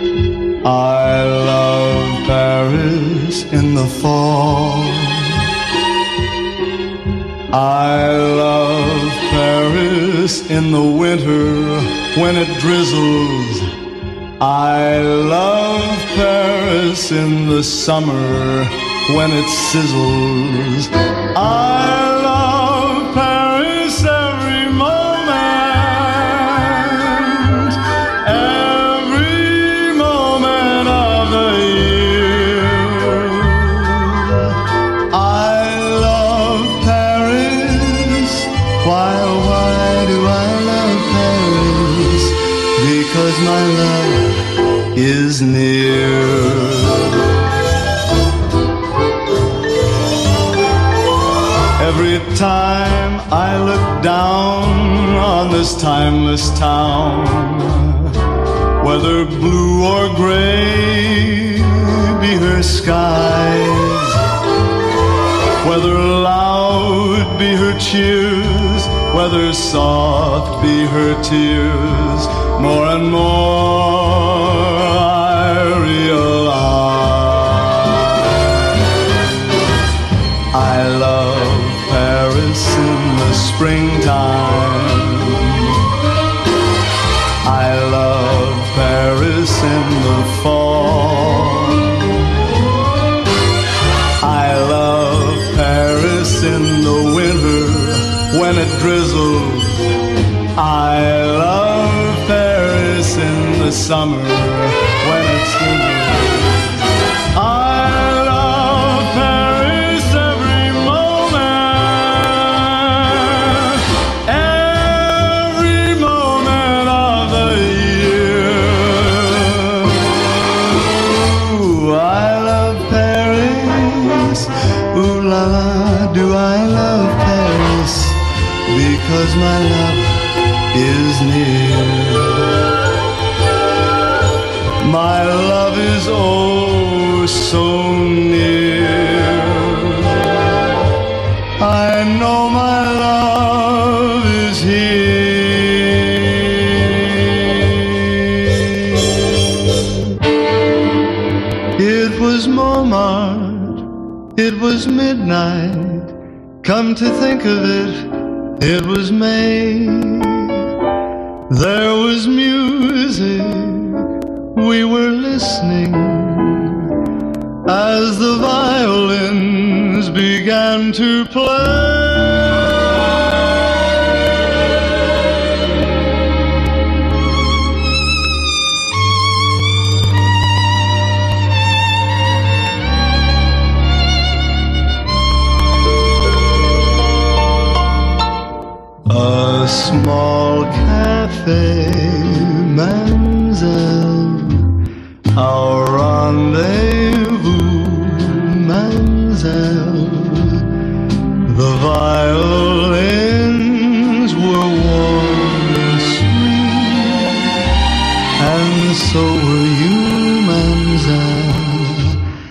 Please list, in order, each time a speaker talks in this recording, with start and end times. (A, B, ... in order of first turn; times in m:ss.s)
0:00.6-0:05.5 A
0:07.5-0:13.7 A
0:14.4-0:34.6 A
0:35.1-0:47.2 A
0:51.8-0:58.2 A
0:58.8-1:04.2 A
1:05.6-1:18.3 A
1:20.5-1:25.8 A
1:27.4-1:32.1 A
1:34.2-1:40.0 A
1:40.5-2:12.6 A
2:14.8-2:20.4 A
2:21.6-2:29.1 A
2:31.8-2:40.7 A
2:41.5-2:46.9 A
2:47.6-2:52.6 A
3:09.0-3:14.8 A
3:15.3-3:20.7 A
3:21.4-3:27.5 A
3:28.4-3:32.2 A